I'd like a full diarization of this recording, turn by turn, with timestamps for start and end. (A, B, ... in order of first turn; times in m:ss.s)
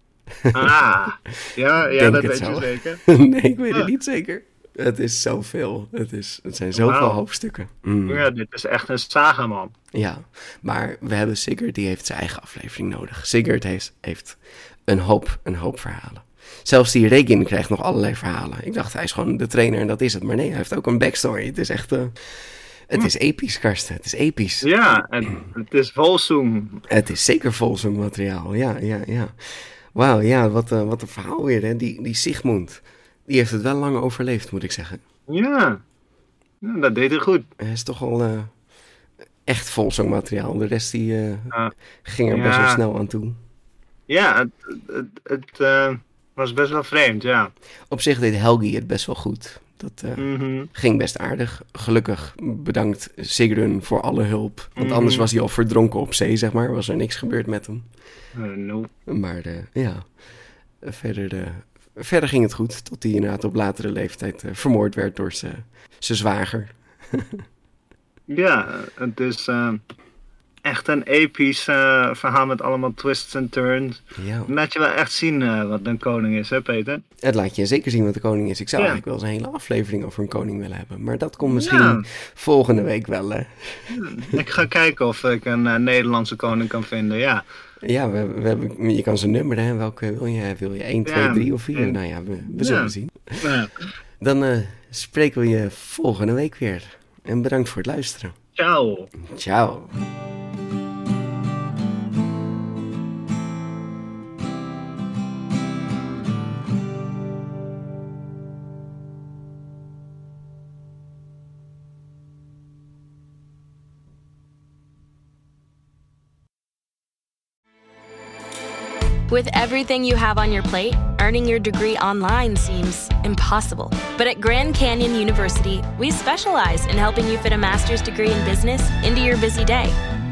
0:00.4-0:08.3 A
0:00.5-0:03.0 B
0:06.7-0:07.2 B
0:08.1-0:09.7 B
0:09.9-0:25.0 A
0:24.6-0:26.8 B
0:26.9-0:35.0 A
0:35.3-0:35.8 B
0:36.6-0:37.5 B
0:37.6-0:38.5 A
0:39.5-0:43.4 A
0:42.3-0:42.8 B
0:44.1-0:47.5 B
0:47.9-0:57.8 A
0:50.2-0:50.7 B
0:54.8-0:55.3 B
0:58.3-0:58.9 B
0:59.1-1:00.1 A
1:00.8-1:07.4 A
1:08.3-1:09.8 B
1:10.6-1:17.0 B
1:14.2-1:14.5 A
1:17.2-1:24.4 A
1:18.8-1:19.0 B
1:21.5-1:22.1 B
1:23.9-1:27.4 B
1:27.8-1:33.6 A
1:31.0-1:32.0 B
1:32.5-1:33.9 B
1:34.2-1:38.4 A
1:38.6-1:39.1 B
1:39.2-1:39.9 A
1:59.3-2:10.0 C